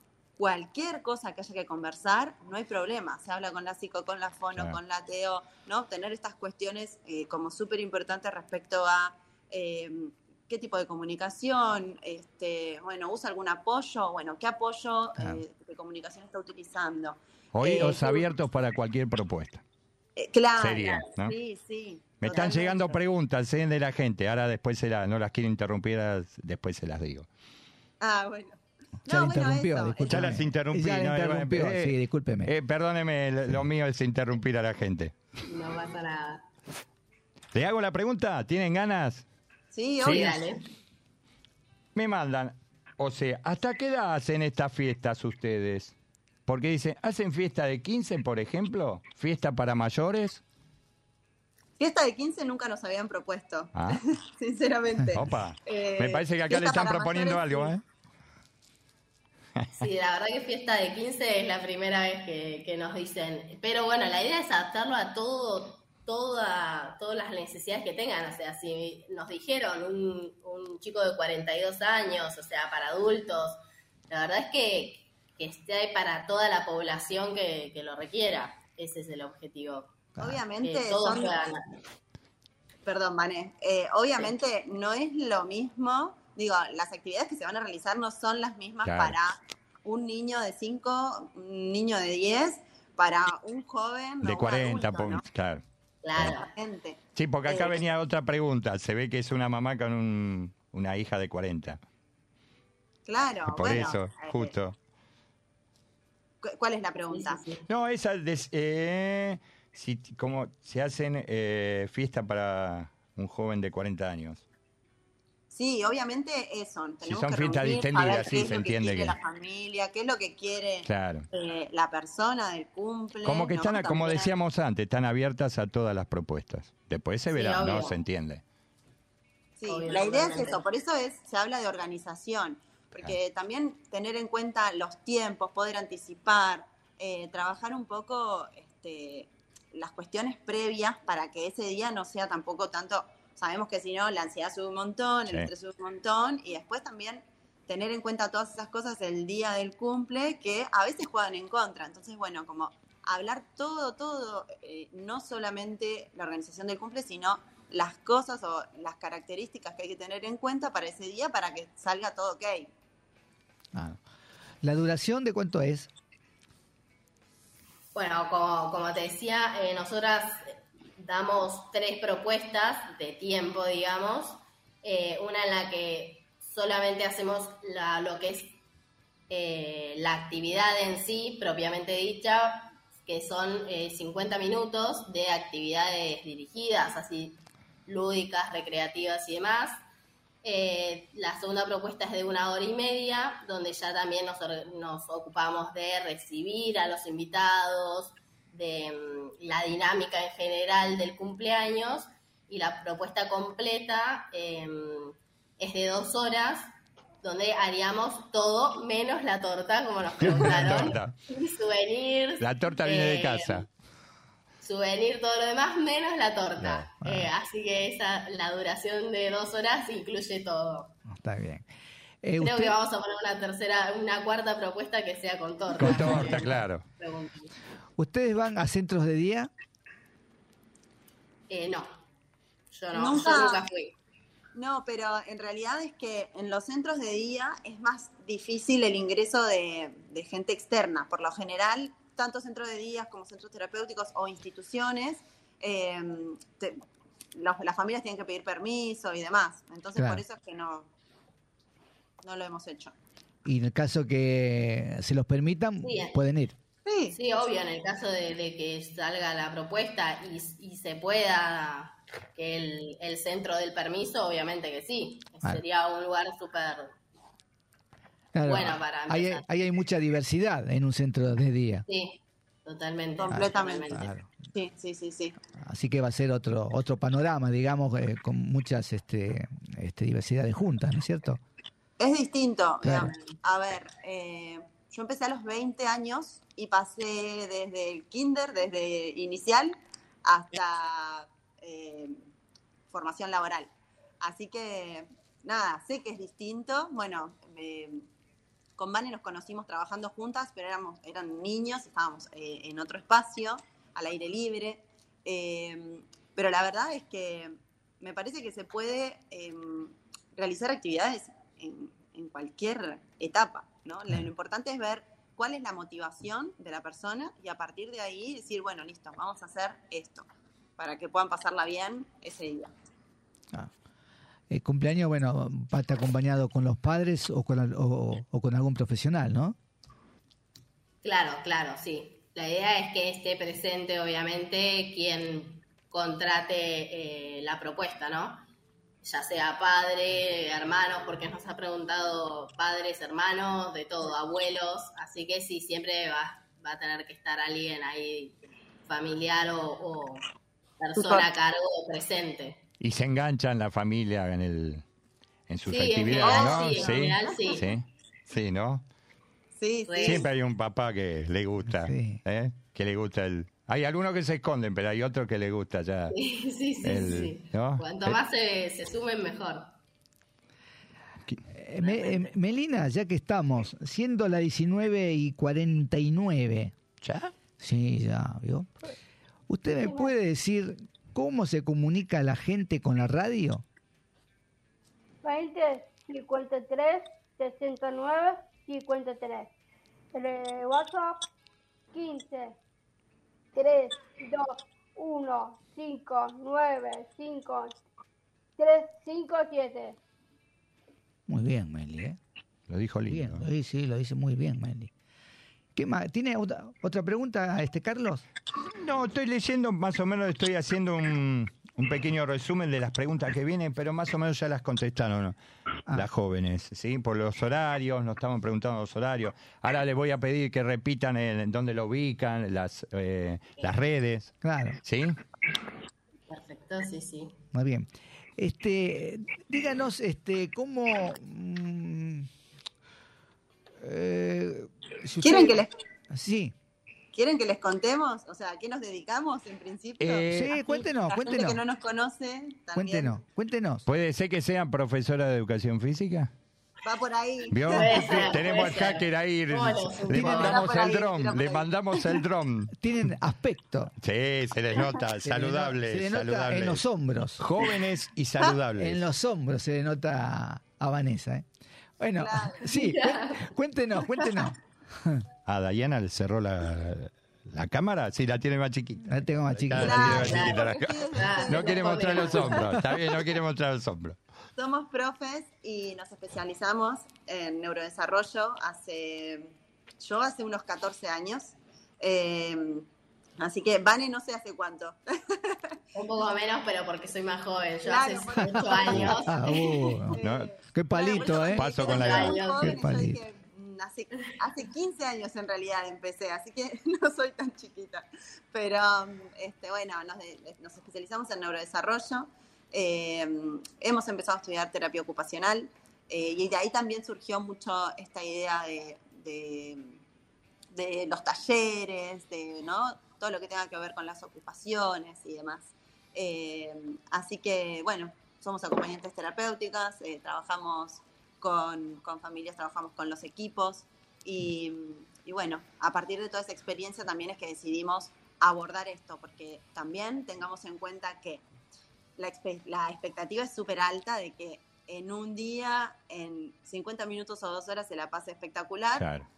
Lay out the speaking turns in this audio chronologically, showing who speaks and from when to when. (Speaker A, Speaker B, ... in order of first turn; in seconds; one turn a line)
Speaker A: 0.4-18.3
Speaker B: 17.5-19.6
Speaker A: 20.2-23.0
Speaker B: 20.6-21.4
Speaker B: 22.2-27.3
Speaker A: 28.0-30.3
Speaker C: 29.1-32.5
Speaker B: 30.1-35.1
Speaker D: 35.5-36.5
Speaker B: 37.5-39.3
Speaker A: 39.7-40.4
Speaker D: 40.0-40.6
Speaker B: 40.0-40.4
Speaker B: 42.0-46.0
Speaker B: 46.5-50.4
Speaker A: 51.8-57.7
Speaker B: 53.7-54.0
Speaker B: 55.1-57.8
Speaker D: 59.8-80.1
Speaker A: 80.2-81.3
Speaker D: 80.6-81.6
Speaker A: 82.9-95.2
Speaker B: 88.8-89.2
Speaker B: 94.2-95.6
Speaker D: 96.0-96.5
Speaker A: 96.2-97.8
Speaker B: 97.2-101.8
Speaker A: 103.1-104.5
Speaker B: 103.5-104.8
Speaker A: 106.4-107.4
Speaker D: 107.1-107.7
Speaker B: 107.7-114.4
Speaker A: 115.5-124.3
Speaker B: 117.0-119.2
Speaker B: 120.8-121.3
Speaker B: 123.2-128.4
Speaker D: 127.3-128.0
Speaker A: 129.6-162.7
Speaker D: 129.7-130.6
Speaker C: 163.7-164.0
Speaker C: 164.6-165.9
Speaker D: 167.9-178.6
Speaker D: 179.3-189.8
Speaker D: 190.4-206.7
Speaker D: 207.2-213.6
Speaker B: 210.2-211.2
Speaker B: 212.4-213.7
Speaker D: 214.6-220.9
Speaker B: 216.6-216.9
Speaker C: 217.0-217.3
Speaker C: 221.1-221.7
Speaker C: 222.2-222.8
Speaker D: 222.4-227.5
Speaker B: 225.8-226.8
Speaker C: 225.9-226.3
Speaker C: 228.0-229.5
Speaker D: 231.5-231.9
Speaker D: 232.7-233.9
Speaker A: 232.9-233.6
Speaker A: 234.6-246.8
Speaker A: 247.3-250.9
Speaker C: 250.0-250.2
Speaker A: 252.2-252.9
Speaker C: 253.4-256.6
Speaker D: 255.8-256.2
Speaker A: 256.9-257.2
Speaker D: 257.1-266.9
Speaker C: 268.3-271.9
Speaker D: 268.4-269.5
Speaker D: 271.9-274.1
Speaker A: 273.2-273.9
Speaker C: 273.3-274.3
Speaker A: 274.5-275.4
Speaker C: 275.6-281.4
Speaker A: 282.0-292.2
Speaker C: 282.8-283.1
Speaker D: 283.0-283.4
Speaker A: 292.9-298.1
Speaker A: 298.8-320.3
Speaker A: 320.8-322.7
Speaker C: 324.5-329.6
Speaker D: 331.0-338.4
Speaker D: 339.0-350.2
Speaker D: 350.8-352.6
Speaker A: 351.0-351.2
Speaker B: 352.8-354.8
Speaker B: 355.5-358.9
Speaker D: 355.7-357.7
Speaker A: 356.2-357.5
Speaker A: 359.6-360.3
Speaker D: 359.9-360.3
Speaker B: 360.0-366.1
Speaker C: 361.7-362.2
Speaker D: 366.1-369.7
Speaker B: 366.8-368.2
Speaker C: 371.5-376.8
Speaker D: 371.8-372.3
Speaker B: 377.0-377.3
Speaker C: 377.6-378.8
Speaker C: 379.5-383.6
Speaker E: 379.8-380.1
Speaker E: 385.2-389.5
Speaker E: 390.1-391.2
Speaker E: 391.9-392.6
Speaker E: 393.6-397.8
Speaker E: 398.6-400.0
Speaker C: 401.3-402.2
Speaker B: 402.7-403.4
Speaker C: 403.1-404.9
Speaker C: 405.8-408.2
Speaker B: 408.7-415.4
Speaker B: 415.9-425.2
Speaker C: 424.4-424.8
Speaker D: 426.3-427.4
Speaker C: 427.5-432.3
Speaker C: 433.8-435.6
Speaker A: 435.2-435.7
Speaker C: 436.1-436.5
Speaker A: 437.1-443.2
Speaker B: 440.0-440.6
Speaker C: 440.3-441.6
Speaker C: 442.8-443.9
Speaker B: 443.9-446.3
Speaker A: 446.8-448.4
Speaker B: 447.5-452.7
Speaker D: 447.7-450.6
Speaker C: 450.1-450.6
Speaker A: 450.1-452.1
Speaker C: 452.8-453.9
Speaker B: 454.0-456.8
Speaker C: 455.2-457.4
Speaker B: 457.4-459.0
Speaker C: 458.8-461.5
Speaker C: 462.0-465.2
Speaker A: 462.2-462.7
Speaker D: 462.8-463.4
Speaker B: 465.5-474.2
Speaker C: 469.1-470.4
Speaker A: 469.8-472.6
Speaker D: 470.1-472.6
Speaker A: 474.6-482.9
Speaker A: 483.4-485.8
Speaker D: 485.9-490.0
Speaker A: 487.8-510.0
Speaker C: 488.4-490.2
Speaker B: 490.2-490.5
Speaker C: 490.7-491.7
Speaker B: 491.4-492.4
Speaker D: 491.8-492.8
Speaker C: 492.6-493.2
Speaker A: 510.7-531.4
Speaker A: 532.2-539.1
Speaker B: 539.0-539.3